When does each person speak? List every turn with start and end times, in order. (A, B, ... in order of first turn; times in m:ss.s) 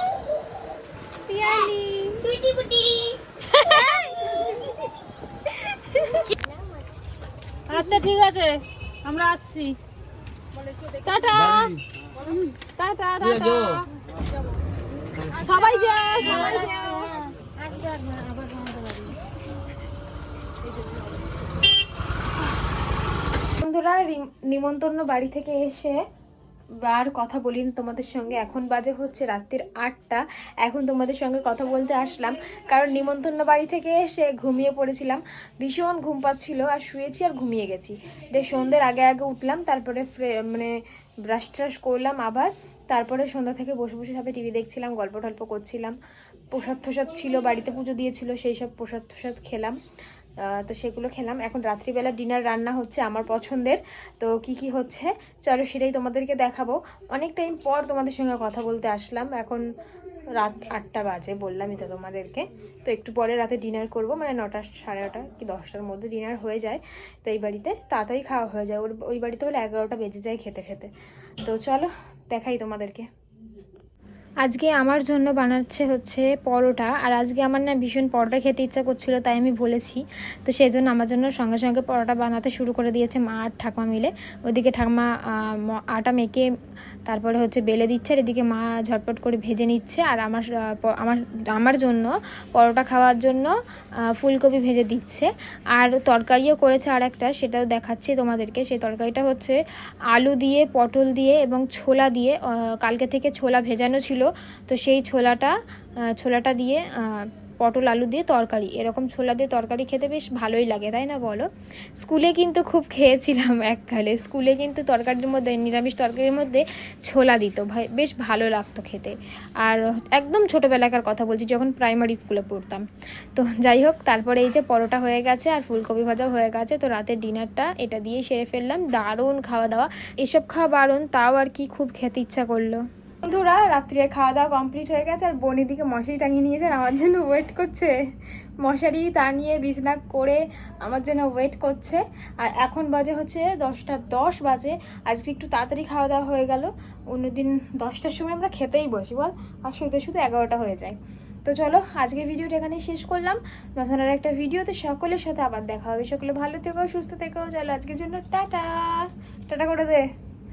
0:01.3-0:04.7 A
0:01.4-0:02.2 B
0:06.1-0:06.8 A
0:07.7-0:09.8 C
0:11.0-0:11.7 A
0:11.1-0:11.7 B
0:11.2-0:11.8 C
0:12.8-0:13.6 B
0:13.2-0:13.8 C
0:13.2-0:13.8 A
0:15.3-0:17.7 A
0:15.4-0:16.9 B
0:16.2-0:17.1 C
0:17.6-0:19.2 C
0:23.6-0:26.0 B
0:26.8-0:40.7 B
0:41.3-0:46.0 B
0:46.5-0:49.8 B
0:50.4-0:59.6 B
1:00.4-1:10.9 B
1:11.4-1:13.0 B
1:14.4-1:26.5 B
1:27.1-1:33.5 B
1:34.1-1:39.6 B
1:40.1-1:45.6 B
1:46.1-1:51.5 B
1:52.0-2:18.0 B
2:18.6-2:40.1 B